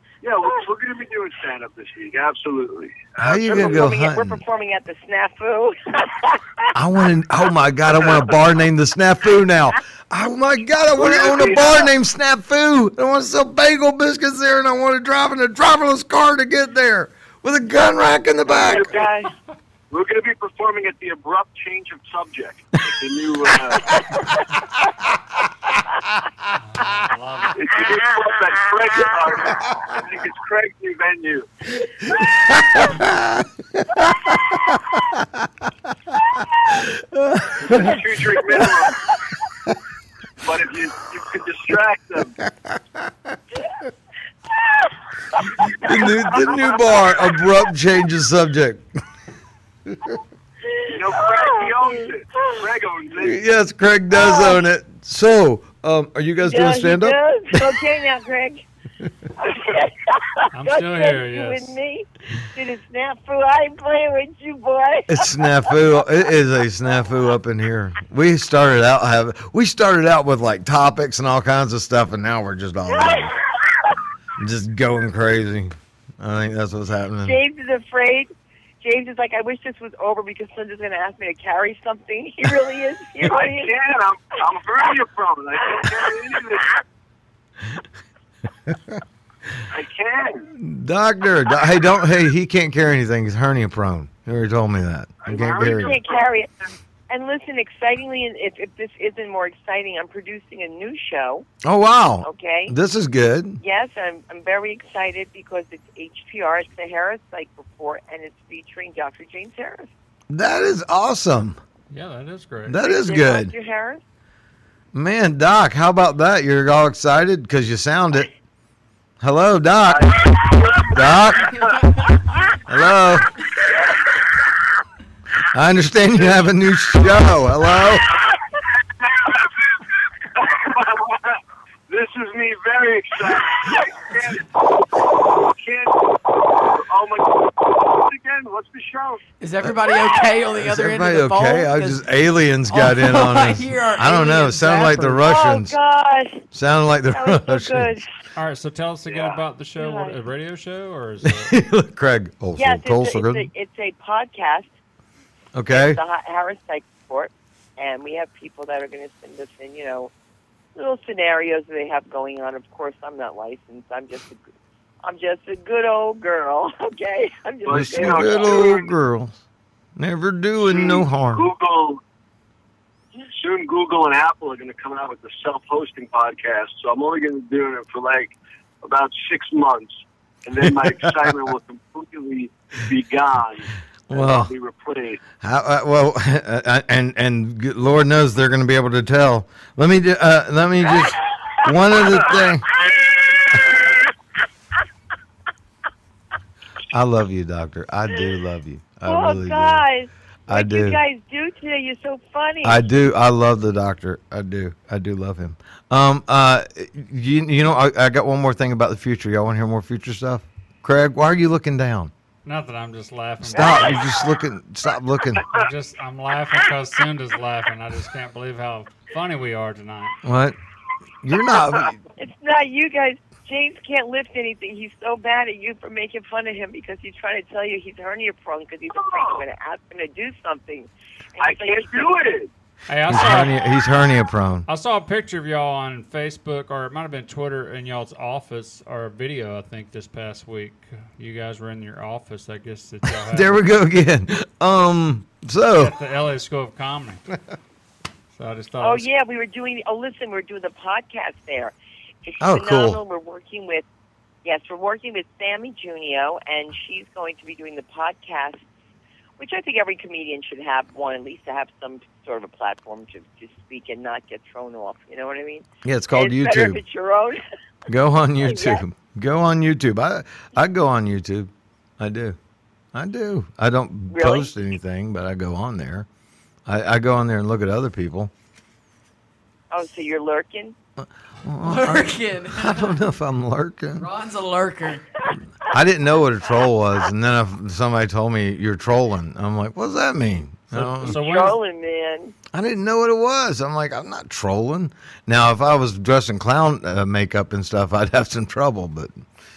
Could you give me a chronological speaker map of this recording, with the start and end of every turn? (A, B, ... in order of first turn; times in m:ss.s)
0:00.2-0:03.8 A
0:03.2-0:04.4 B
0:03.4-0:06.7 C
0:06.8-0:19.0 B
0:10.9-0:11.9 A
0:18.5-0:19.3 C
0:18.5-0:19.1 A
0:19.9-0:24.1 A
0:26.6-0:27.9 D
0:27.6-0:32.2 A
0:32.2-0:35.5 B
0:36.7-0:38.6 B
0:37.6-0:39.0 A
0:40.4-0:42.4 A
0:42.4-0:43.1 B
0:45.6-0:48.9 B
0:45.8-0:46.2 C
0:46.0-0:47.3 A
0:49.9-0:50.2 B
0:50.9-0:53.4 A
0:51.2-0:51.6 C
0:53.2-0:57.8 B
0:54.1-0:54.6 C
0:56.4-0:58.6 C
0:59.4-1:05.8 C
1:00.5-1:01.8 D
1:05.1-1:13.4 B
1:12.9-1:13.9 C
1:14.4-1:17.4 B
1:17.2-1:23.7 C
1:23.2-1:26.8 A
1:28.7-1:29.0 B
1:29.7-1:30.5 A
1:30.5-1:36.0 B
1:35.2-1:36.2 A
1:35.6-1:36.5 C
1:37.1-1:41.5 C
1:41.6-1:43.6 B
1:42.2-1:42.7 C
1:43.6-1:49.9 C
1:50.3-1:51.6 B
1:51.9-1:52.8 D
1:52.7-1:53.5 B
1:52.8-1:54.0 C
1:54.9-1:58.3 B
1:59.2-2:01.8 B
1:59.9-2:01.8 A
2:01.6-2:02.1 E
2:02.6-2:03.4 B
2:05.5-2:08.1 B
2:09.0-2:09.7 A
2:10.3-2:19.2 A
2:19.4-2:22.0 E
2:20.6-2:25.8 B
2:22.7-2:25.2 E
2:25.2-2:26.5 C
2:26.5-2:27.9 B
2:27.1-2:28.1 C
2:28.4-2:31.6 D
2:29.8-2:30.2 C
2:31.2-2:33.5 B
2:32.6-2:34.7 C
2:35.5-2:36.0 B
2:35.7-2:40.1 C
2:40.8-2:44.4 C
2:45.0-2:48.8 C
2:47.6-2:48.9 A
2:47.7-2:49.4 B
2:50.0-2:51.5 B
2:50.6-2:52.0 A
2:53.4-3:05.2 A
3:00.8-3:01.4 B
3:04.1-3:04.5 B
3:05.4-3:12.7 B
3:16.9-3:19.8 B
3:19.1-3:22.8 C
3:20.5-3:21.0 B
3:22.6-3:32.1 B
3:32.4-3:34.1 D
3:33.4-3:35.5 B
3:33.6-3:34.0 C
3:35.5-3:40.2 D
3:40.2-3:40.6 B
3:41.2-3:42.0 B
3:42.2-3:52.1 C
3:49.0-3:49.4 A
3:51.4-3:52.5 A
3:52.9-3:53.6 D
3:53.1-3:54.7 B
3:54.7-4:03.6 D
4:03.2-4:06.0 B
4:05.8-4:07.2 D
4:08.3-4:09.1 D
4:08.8-4:11.7 C
4:12.2-4:13.8 C
4:12.4-4:13.0 B
4:14.4-4:18.6 C
4:19.4-4:27.4 C
4:25.8-4:26.8 B
4:27.9-4:32.4 B
4:28.4-4:28.8 C
4:32.9-4:36.1 B
4:34.1-4:34.5 C
4:36.6-4:38.3 B
4:39.7-4:40.8 C
4:41.0-4:44.1 B
4:41.6-4:43.0 E
4:44.0-4:45.2 E
4:45.6-4:51.2 B
4:50.7-4:51.6 D
4:51.0-4:52.4 C
4:52.5-4:59.2 B